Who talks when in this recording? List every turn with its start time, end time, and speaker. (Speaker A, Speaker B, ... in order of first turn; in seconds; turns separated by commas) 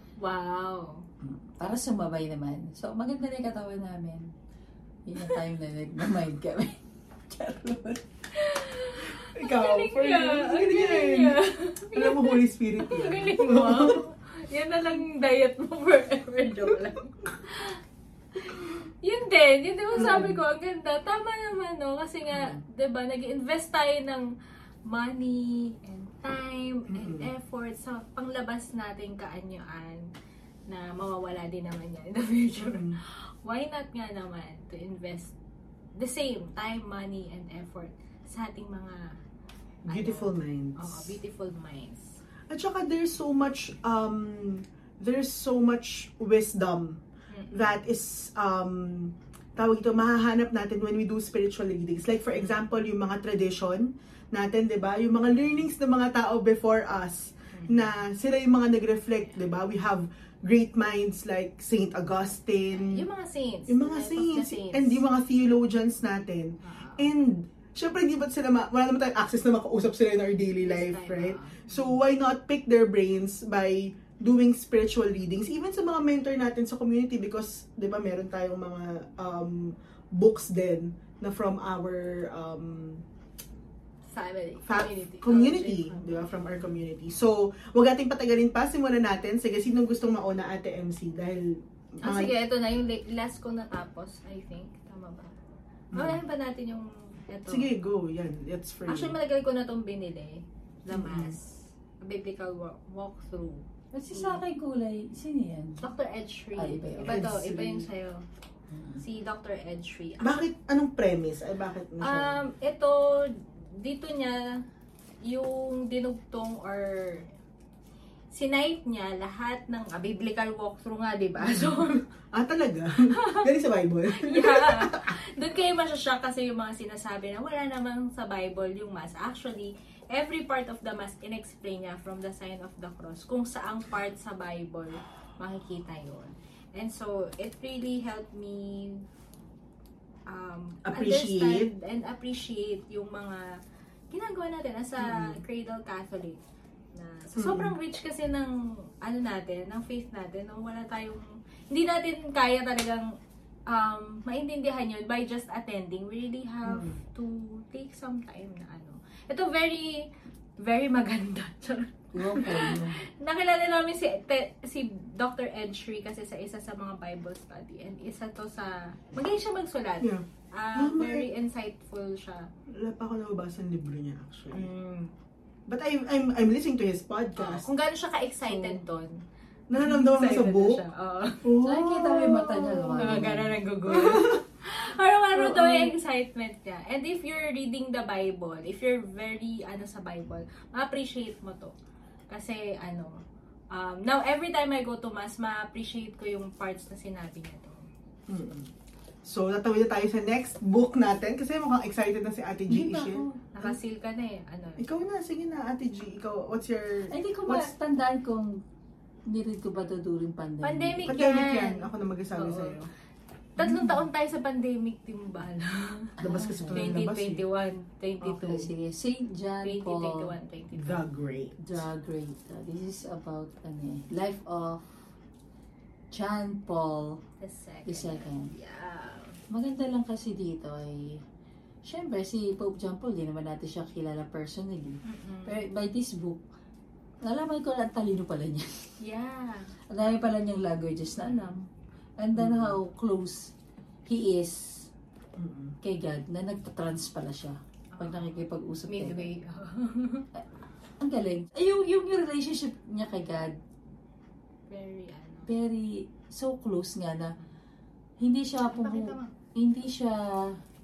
Speaker A: 0.2-1.1, Speaker B: 1.2-4.3, Speaker B: 5.1-6.8, Speaker B: 7.3-8.0, Speaker A: 8.3-17.8, Speaker C: 9.2-11.4, Speaker C: 11.9-14.0, Speaker A: 18.4-24.3, Speaker C: 19.9-20.4, Speaker C: 22.3-22.6, Speaker A: 24.9-30.1, Speaker C: 26.9-27.3, Speaker A: 30.7-35.3, Speaker C: 32.6-33.0, Speaker A: 36.0-39.2, Speaker C: 39.9-41.2, Speaker A: 39.9-42.2, Speaker C: 42.5-63.1, Speaker A: 47.3-47.6, Speaker A: 52.3-52.6, Speaker A: 57.5-57.9, Speaker A: 62.7-65.0, Speaker C: 63.7-83.0, Speaker A: 66.6-67.1, Speaker A: 70.6-71.7, Speaker A: 84.1-86.6, Speaker C: 84.7-92.3, Speaker A: 92.0-95.3, Speaker C: 95.9-96.2, Speaker A: 95.9-97.7, Speaker C: 97.5-99.2, Speaker A: 98.9-104.4, Speaker C: 100.9-101.4, Speaker B: 103.9-105.8, Speaker A: 105.8-108.3, Speaker B: 106.6-107.3, Speaker C: 107.0-107.9, Speaker B: 108.7-109.0, Speaker A: 109.0-110.4, Speaker C: 110.2-112.4, Speaker A: 112.0-114.6, Speaker A: 115.2-117.3, Speaker A: 118.3-122.0, Speaker C: 121.4-125.1, Speaker A: 123.1-123.5, Speaker A: 124.1-139.0, Speaker A: 140.3-143.6, Speaker C: 140.8-141.7, Speaker A: 144.1-146.4, Speaker C: 145.0-145.4, Speaker A: 146.9-153.2, Speaker C: 147.4-147.7, Speaker A: 153.7-160.1, Speaker C: 156.7-157.0, Speaker A: 160.6-172.5, Speaker B: 162.1-163.0, Speaker C: 170.8-171.3, Speaker C: 172.7-174.7, Speaker A: 174.5-175.1, Speaker C: 175.7-177.7, Speaker A: 177.4-179.2, Speaker C: 179.7-180.8, Speaker A: 179.8-181.5, Speaker C: 181.4-183.4, Speaker B: 181.6-183.6, Speaker A: 183.0-191.7, Speaker C: 183.9-184.4, Speaker C: 185.4-185.9, Speaker A: 192.3-197.9, Speaker C: 198.3-198.7, Speaker C: 199.2-203.8, Speaker B: 202.7-203.4, Speaker A: 203.5-204.8, Speaker C: 204.8-207.7, Speaker B: 207.1-208.6, Speaker B: 209.3-211.2, Speaker A: 210.6-212.8, Speaker C: 211.1-212.9, Speaker A: 213.6-216.2, Speaker C: 216.2-217.4, Speaker B: 216.2-217.0, Speaker A: 216.7-218.7, Speaker C: 218.2-218.7, Speaker B: 218.5-220.3, Speaker A: 219.6-221.1, Speaker C: 220.8-221.8, Speaker B: 221.6-224.8, Speaker B: 226.1-227.2, Speaker A: 227.4-229.4, Speaker B: 227.9-228.5, Speaker B: 229.5-231.2, Speaker B: 231.8-236.4, Speaker A: 235.1-235.6, Speaker B: 237.2-238.8, Speaker A: 239.0-239.7, Speaker B: 239.9-241.7, Speaker A: 241.2-241.5, Speaker B: 242.2-243.5, Speaker C: 242.3-242.8, Speaker B: 244.1-244.9, Speaker C: 245.4-245.8, Speaker B: 245.8-249.3, Speaker A: 247.9-250.3, Speaker B: 251.0-253.6, Speaker A: 254.7-255.5, Speaker B: 255.5-257.3, Speaker B: 258.2-260.6, Speaker A: 258.7-259.4